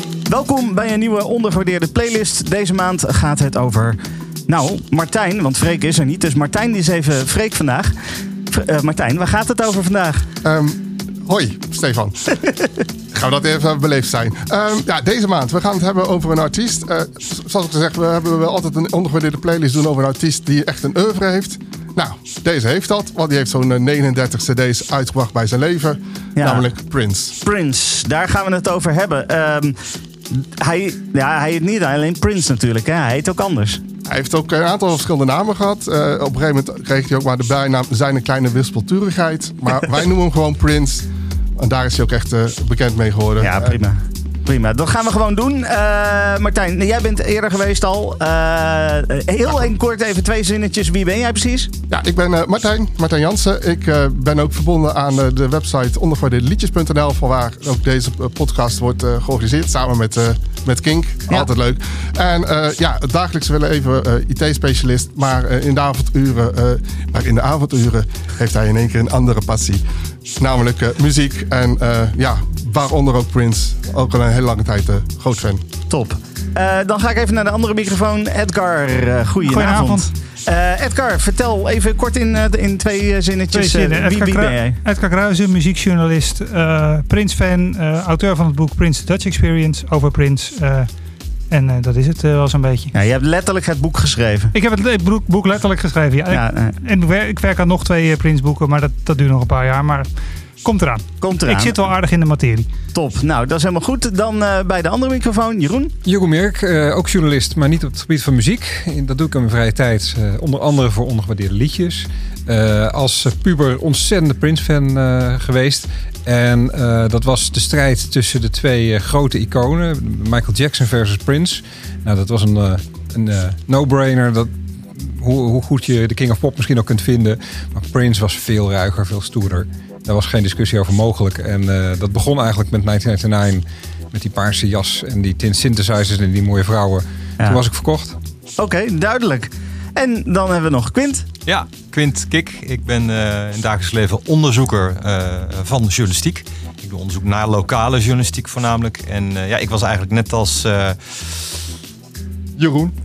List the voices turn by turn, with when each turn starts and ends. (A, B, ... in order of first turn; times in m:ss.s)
0:00.3-0:10.3 A
0:10.4-0:12.4 B
0:13.1-0:27.4 B
0:26.4-0:26.6 A
0:27.4-0:33.8 A
0:34.0-0:43.8 B
0:43.4-0:51.7 A
0:51.9-1:09.8 B
1:10.4-1:15.6 B
1:15.9-1:24.8 A
1:19.4-1:20.1 C
1:23.5-1:30.9 C
1:31.5-1:32.9 C
1:32.9-1:34.5 A
1:34.5-1:40.1 C
1:36.3-1:36.8 A
1:40.6-1:42.7 C
1:41.2-1:41.8 A
1:42.9-1:45.9 A
1:46.0-2:18.2 D
2:18.6-2:21.3 A
2:21.4-2:31.6 E
2:32.6-2:32.9 B